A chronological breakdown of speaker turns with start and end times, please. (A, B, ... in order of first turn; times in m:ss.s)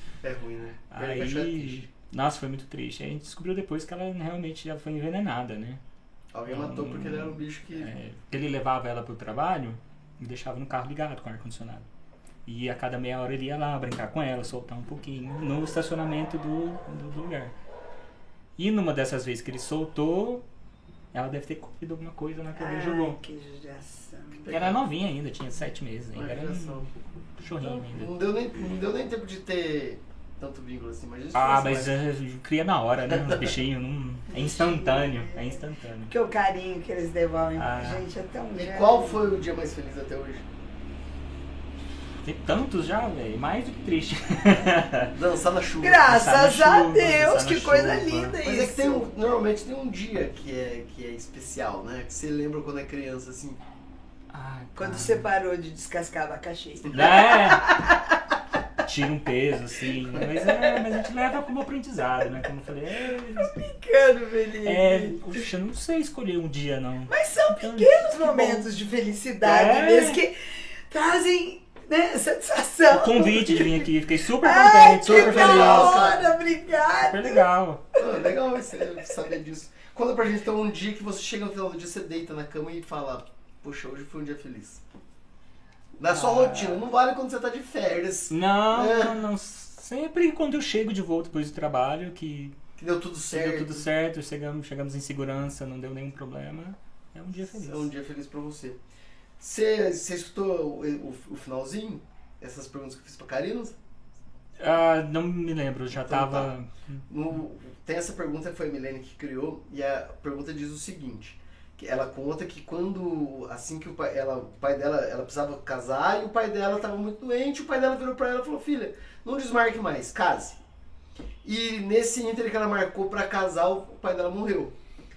0:00.2-0:01.9 A
0:00.9-0:05.8 B
0:06.3-0:07.9 A
0:06.5-0:11.9 B
0:12.5-0:17.5 B
0:18.6-0:20.4 B
0:21.1-0:23.2 B
0:22.6-0:24.5 C
0:24.4-0:24.8 A
0:24.5-0:26.9 B
0:26.1-0:26.9 A
0:27.4-0:28.1 B
0:27.6-0:32.0 A
0:31.3-0:36.1 B
0:34.4-0:35.5 C
0:36.1-0:39.2 C
0:37.6-0:38.0 B
0:38.6-0:40.4 A
0:42.2-0:45.1 B
0:45.1-0:46.1 A
0:45.8-0:49.1 C
0:46.0-0:48.4 B
0:48.4-0:53.6 A
0:54.3-0:55.3 B
0:54.8-0:58.2 C
0:56.9-0:57.7 B
0:58.8-1:03.6 B
1:00.4-1:00.7 C
1:03.4-1:05.2 C
1:04.6-1:08.7 B
1:07.1-1:10.4 C
1:09.4-1:10.2 B
1:10.9-1:13.9 C
1:12.9-1:16.1 B
1:14.4-1:17.4 C
1:15.0-1:16.3 A
1:17.0-1:17.8 B
1:18.0-1:24.8 A
1:26.0-1:29.2 A
1:26.1-1:26.8 B
1:28.3-1:32.6 B
1:32.8-1:33.9 A
1:33.3-1:37.9 B
1:37.6-1:38.8 A
1:39.4-1:43.8 A
1:44.6-1:47.0 B
1:46.0-1:46.5 A
1:47.1-2:00.6 A
2:01.4-2:04.8 A